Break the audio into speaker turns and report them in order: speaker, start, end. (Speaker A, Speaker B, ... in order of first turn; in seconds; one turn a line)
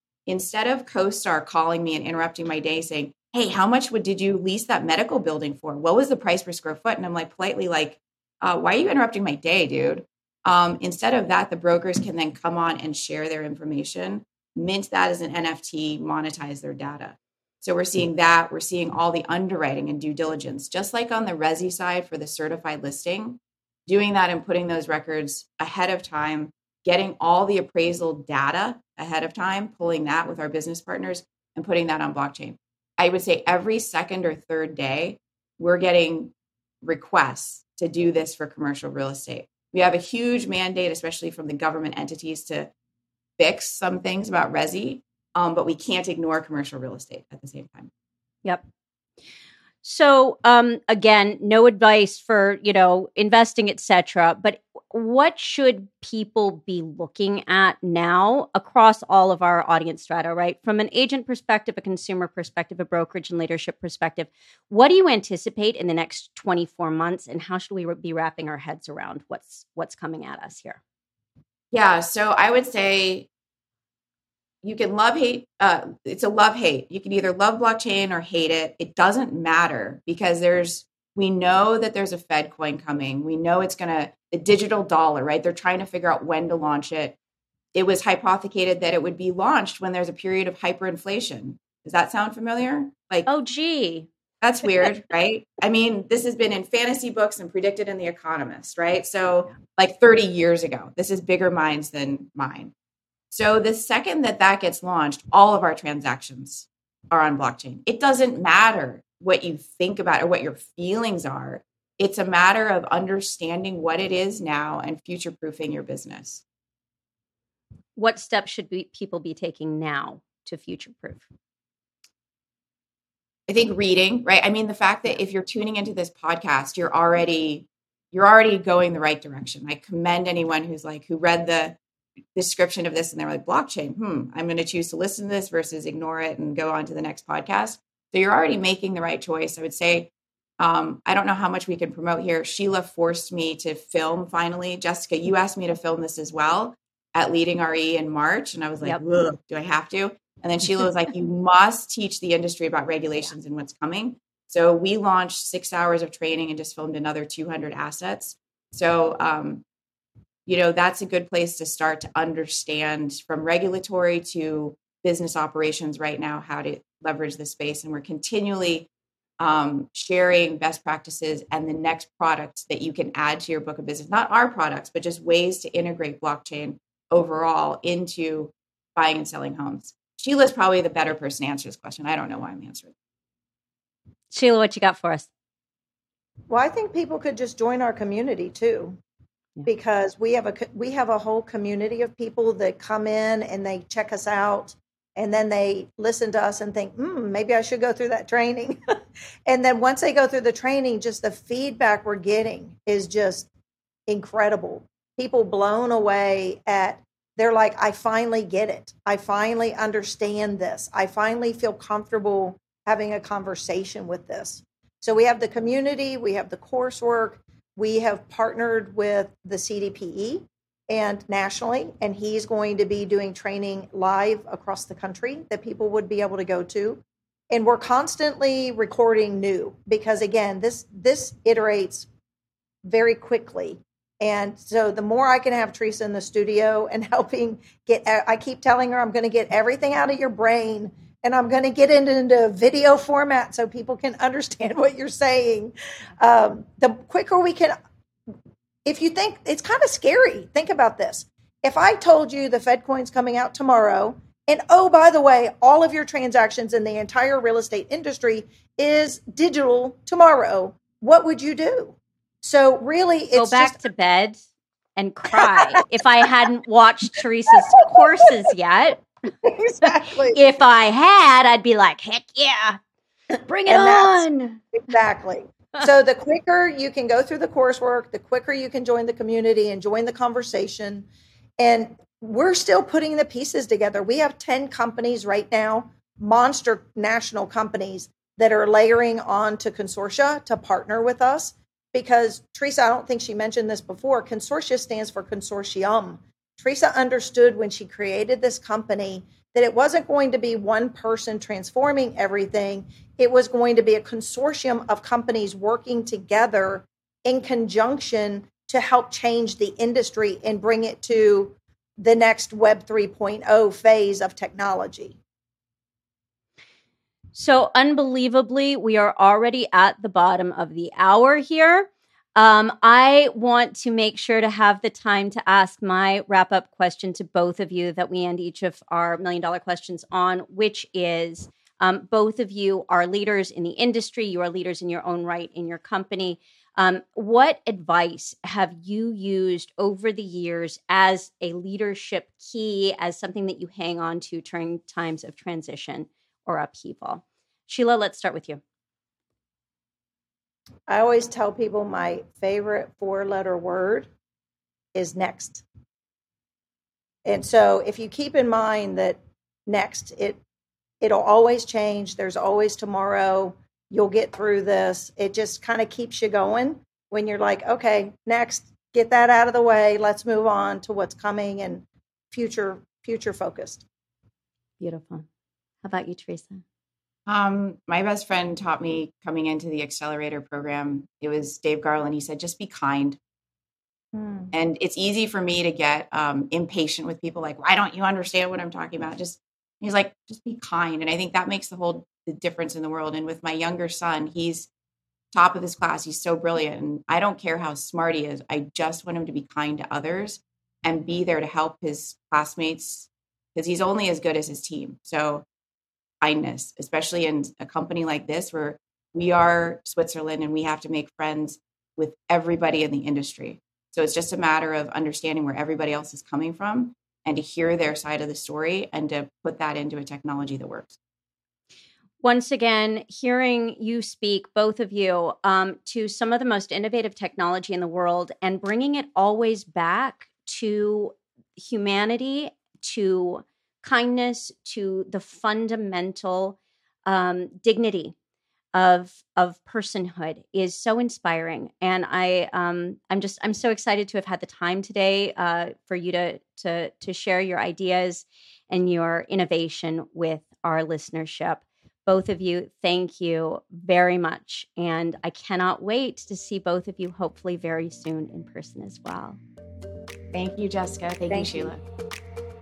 Speaker A: 0.3-36.3
Speaker A: 36.8-42.7
Speaker A: 43.4-47.9
Speaker B: 49.8-70.8
Speaker A: 71.7-73.3
Speaker A: 74.6-87.2
Speaker A: 87.7-93.3
Speaker B: 93.3-94.1
Speaker A: 94.4-102.7
Speaker A: 103.3-116.4
Speaker B: 118.0-121.3
Speaker A: 123.5-131.8
Speaker A: 132.3-159.6
Speaker A: 160.5-168.9
Speaker A: 169.4-182.9
Speaker B: 184.3-185.3
Speaker C: 186.5-189.0
Speaker C: 189.6-203.5
Speaker C: 204.1-232.1
Speaker C: 232.8-247.7
Speaker C: 248.8-263.8
Speaker B: 263.3-264.4
Speaker B: 264.9-269.1
Speaker C: 269.4-270.4
Speaker B: 270.3-272.8
Speaker B: 273.4-274.6
Speaker C: 273.7-274.2
Speaker C: 274.8-281.1
Speaker C: 281.6-315.2
Speaker B: 317.3-348.6
Speaker C: 350.9-354.1
Speaker C: 354.9-355.6
Speaker C: 357.2-360.4
Speaker C: 361.0-373.8
Speaker B: 374.8-375.2
Speaker B: 375.8-376.6
Speaker A: 377.3-383.2
Speaker C: 384.1-384.5
Speaker A: 384.5-394.7
Speaker A: 395.3-405.4
Speaker A: 406.2-421.0
Speaker B: 422.2-438.1
Speaker B: 438.7-459.4
Speaker A: 460.3-461.8
Speaker C: 461.3-461.7